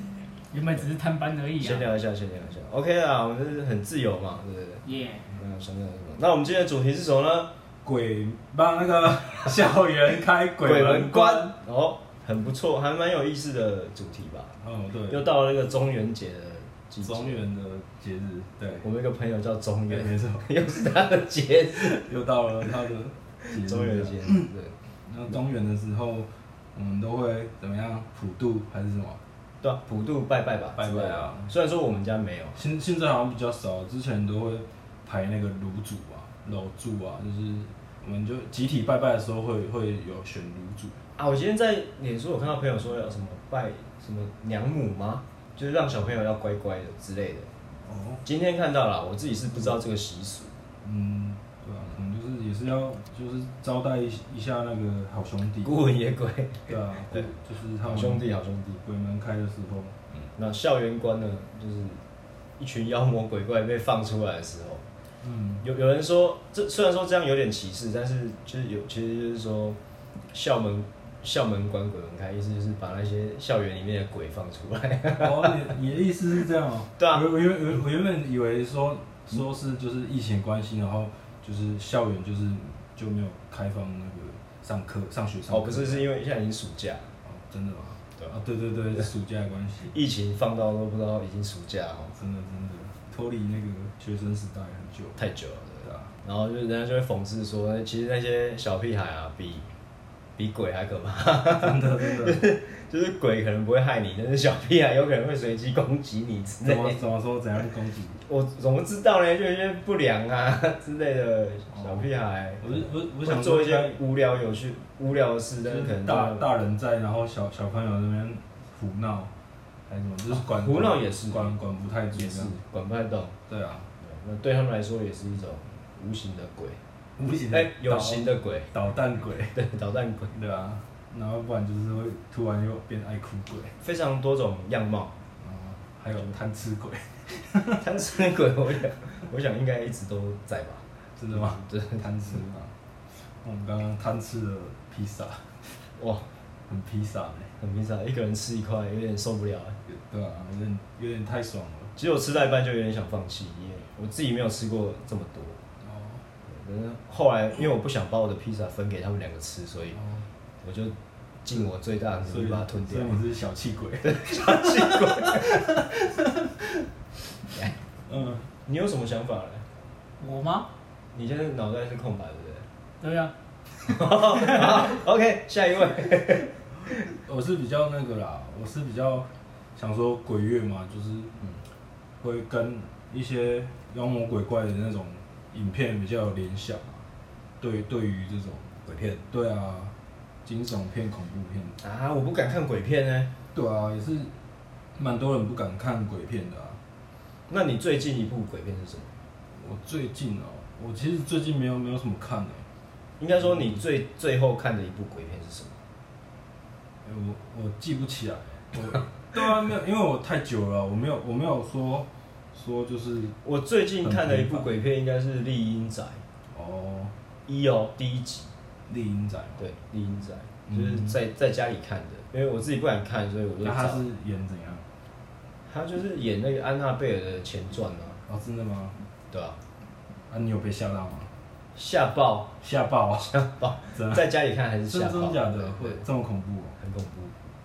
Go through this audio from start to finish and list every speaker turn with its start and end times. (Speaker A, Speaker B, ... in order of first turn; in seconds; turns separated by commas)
Speaker A: 0.5-1.9, Speaker B: 1.6-7.5, Speaker A: 4.8-5.3, Speaker C: 7.8-11.6, Speaker B: 10.6-14.6, Speaker C: 14.6-15.3, Speaker B: 15.1-17.5, Speaker C: 17.0-18.9, Speaker B: 18.8-22.1, Speaker C: 19.9-20.5, Speaker C: 21.9-24.5, Speaker B: 23.4-24.8, Speaker C: 25.1-29.2, Speaker B: 29.6-32.6, Speaker C: 30.8-31.5, Speaker C: 32.5-41.0, Speaker B: 41.2-47.5, Speaker C: 47.8-48.2, Speaker B: 48.2-50.5, Speaker C: 50.8-55.8, Speaker B: 55.6-57.3, Speaker C: 56.7-58.3, Speaker B: 57.8-58.8, Speaker C: 58.8-60.1, Speaker B: 60.4-62.0, Speaker B: 62.6-64.8, Speaker C: 65.2-65.7, Speaker B: 65.6-69.8, Speaker B: 70.3-75.7, Speaker C: 75.2-86.1, Speaker B: 77.0-77.3, Speaker B: 85.5-87.1, Speaker C: 87.2-89.9, Speaker B: 89.9-92.2, Speaker C: 92.2-95.2, Speaker B: 95.2-99.7, Speaker C: 95.8-96.1, Speaker B: 100.4-107.0, Speaker C: 101.5-102.4, Speaker C: 106.6-108.2, Speaker B: 108.2-116.5, Speaker C: 111.7-112.1, Speaker C: 112.6-114.0, Speaker C: 115.6-119.3, Speaker C: 119.9-122.6, Speaker B: 120.3-121.5, Speaker B: 122.1-123.4, Speaker C: 123.5-123.9, Speaker B: 124.0-126.8, Speaker C: 127.2-129.6, Speaker B: 127.5-128.7, Speaker B: 129.5-130.3, Speaker C: 130.3-133.8, Speaker B: 133.8-135.1, Speaker C: 135.4-137.8, Speaker B: 137.8-142.1, Speaker C: 141.2-142.8, Speaker C: 143.3-145.8, Speaker B: 146.0-146.3, Speaker C: 146.7-147.5, Speaker B: 147.6-149.8, Speaker C: 149.9-151.9, Speaker B: 152.0-155.6, Speaker C: 155.8-156.2, Speaker B: 156.4-160.0, Speaker C: 159.9-160.3, Speaker B: 160.6-160.9, Speaker B: 161.4-163.2, Speaker C: 162.3-166.9, Speaker B: 164.0-165.5, Speaker C: 168.1-168.5, Speaker B: 168.7-169.7, Speaker A: 170.2-170.7, Speaker B: 171.1-172.7, Speaker A: 173.0-173.3, Speaker B: 173.8-177.1, Speaker A: 174.4-174.8, Speaker C: 177.1-181.3, Speaker C: 182.2-187.1, Speaker C: 187.6-189.9, Speaker C: 190.4-191.8, Speaker B: 191.8-193.3, Speaker C: 193.5-194.3, Speaker C: 195.0-196.8, Speaker B: 197.5-199.1, Speaker C: 199.6-202.7, Speaker B: 203.2-205.8, Speaker C: 203.4-203.8, Speaker C: 207.1-213.4, Speaker B: 213.4-216.2, Speaker C: 214.0-214.7, Speaker C: 216.5-217.1, Speaker B: 217.5-218.5, Speaker C: 218.9-219.7, Speaker B: 219.6-224.1, Speaker C: 220.7-221.2, Speaker C: 223.6-224.8, Speaker B: 225.7-228.2, Speaker C: 228.3-229.0, Speaker B: 229.3-229.6, Speaker C: 230.3-231.3, Speaker B: 231.8-232.6, Speaker C: 232.6-233.3, Speaker B: 233.3-236.1, Speaker C: 233.9-234.3, Speaker C: 234.9-236.8, Speaker B: 236.8-237.3